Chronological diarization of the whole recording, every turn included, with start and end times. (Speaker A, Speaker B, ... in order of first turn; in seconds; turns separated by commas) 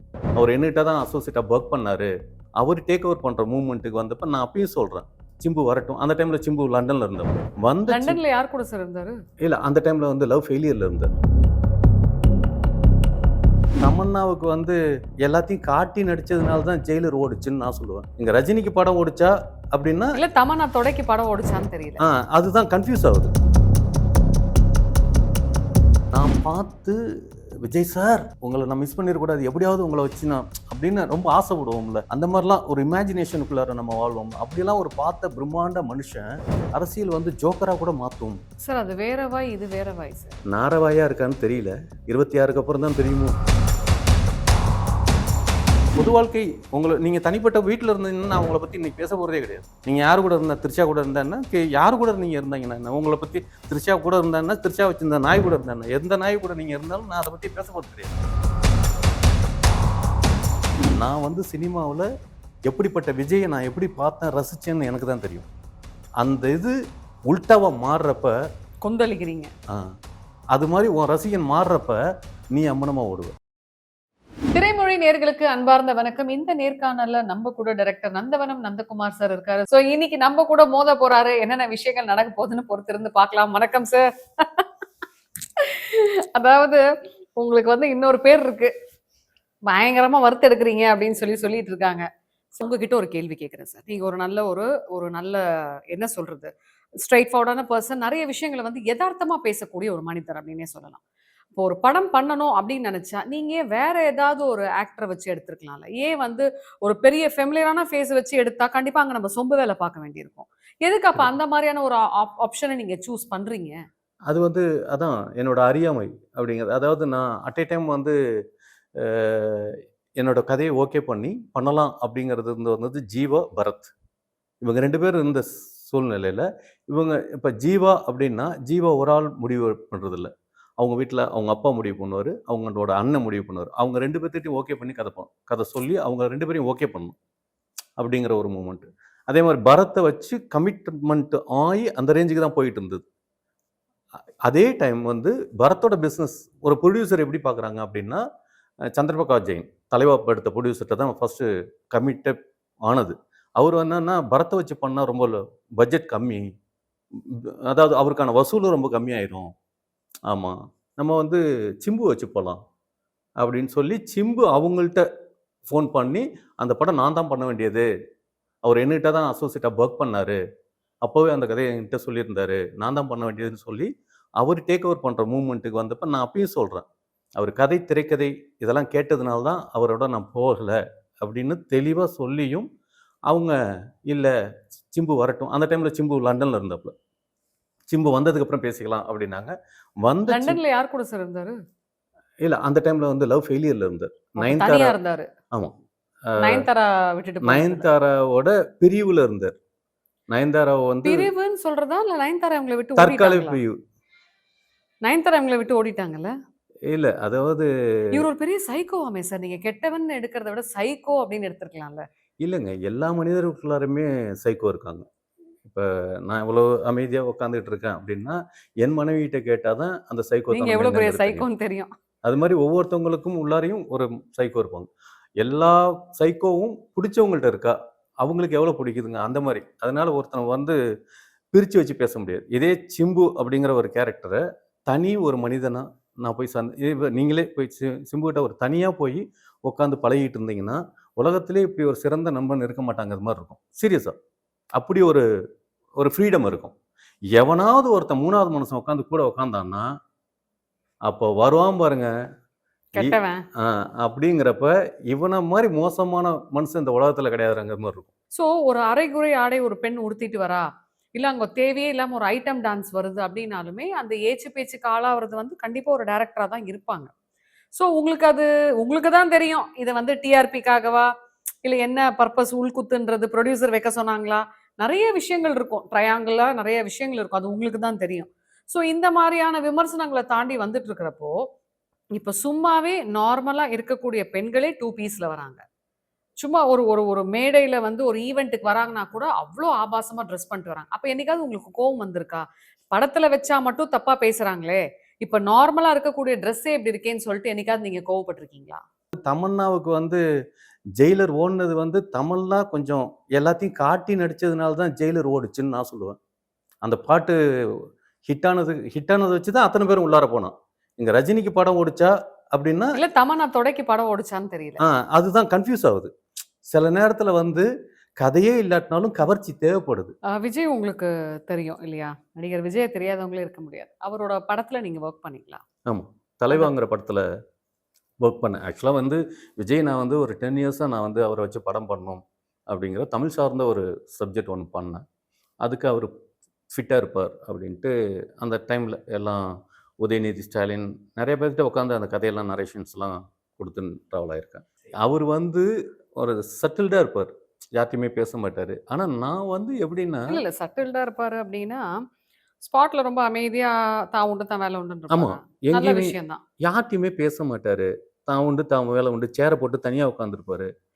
Speaker A: 0.3-8.2, Speaker B: 7.9-9.2, Speaker A: 9.4-11.2, Speaker A: 13.8-20.2, Speaker B: 20.1-22.0, Speaker A: 22.0-23.3, Speaker A: 26.1-27.0, Speaker A: 27.6-38.4, Speaker B: 38.6-40.4, Speaker A: 40.5-43.3, Speaker A: 46.0-58.2, Speaker A: 60.9-62.1, Speaker A: 62.7-65.5, Speaker A: 66.2-66.8, Speaker A: 67.3-68.3, Speaker B: 68.8-69.5, Speaker A: 70.5-72.0, Speaker A: 72.5-73.3, Speaker B: 74.5-84.8, Speaker B: 85.5-86.8, Speaker B: 87.3-88.7, Speaker B: 89.7-101.0, Speaker B: 101.5-113.8, Speaker A: 114.3-118.1, Speaker A: 119.0-123.9, Speaker A: 124.6-137.1, Speaker A: 138.0-143.0, Speaker A: 144.4-148.2, Speaker A: 148.9-156.5, Speaker A: 157.3-159.5, Speaker A: 160.3-162.6, Speaker A: 163.4-165.0, Speaker A: 165.7-167.9, Speaker A: 168.6-170.4, Speaker A: 171.0-176.8, Speaker A: 177.4-182.7, Speaker A: 183.3-183.6, Speaker A: 184.9-186.9, Speaker A: 187.9-190.6, Speaker B: 190.3-191.6, Speaker A: 192.4-194.9, Speaker B: 194.4-195.3, Speaker A: 196.3-196.7, Speaker B: 196.4-197.8, Speaker A: 197.4-199.5, Speaker A: 200.3-201.3, Speaker B: 201.0-203.6, Speaker A: 203.0-203.8, Speaker B: 205.0-206.3, Speaker A: 206.9-208.2, Speaker B: 208.1-212.0, Speaker A: 212.4-215.0, Speaker A: 215.6-221.4, Speaker B: 220.5-221.9, Speaker A: 222.2-224.9, Speaker A: 225.4-230.8, Speaker A: 231.5-244.1, Speaker A: 244.8-245.2, Speaker A: 246.0-246.7, Speaker A: 247.3-249.9, Speaker A: 251.1-252.1, Speaker B: 252.9-253.5, Speaker A: 253.0-258.1, Speaker B: 258.4-267.1, Speaker B: 267.8-271.1, Speaker B: 271.6-281.3, Speaker B: 282.1-285.6, Speaker B: 286.4-298.8, Speaker A: 299.2-300.2, Speaker A: 301.0-306.2, Speaker A: 306.8-307.4, Speaker A: 308.3-313.0, Speaker B: 312.9-314.8, Speaker A: 314.8-316.1, Speaker A: 316.7-317.7, Speaker A: 318.2-320.1, Speaker B: 320.3-325.6, Speaker A: 325.9-327.2, Speaker A: 328.2-335.0, Speaker A: 335.6-336.1, Speaker A: 336.7-339.5, Speaker A: 340.0-350.4, Speaker B: 350.3-351.9, Speaker B: 352.6-356.4, Speaker A: 355.1-360.7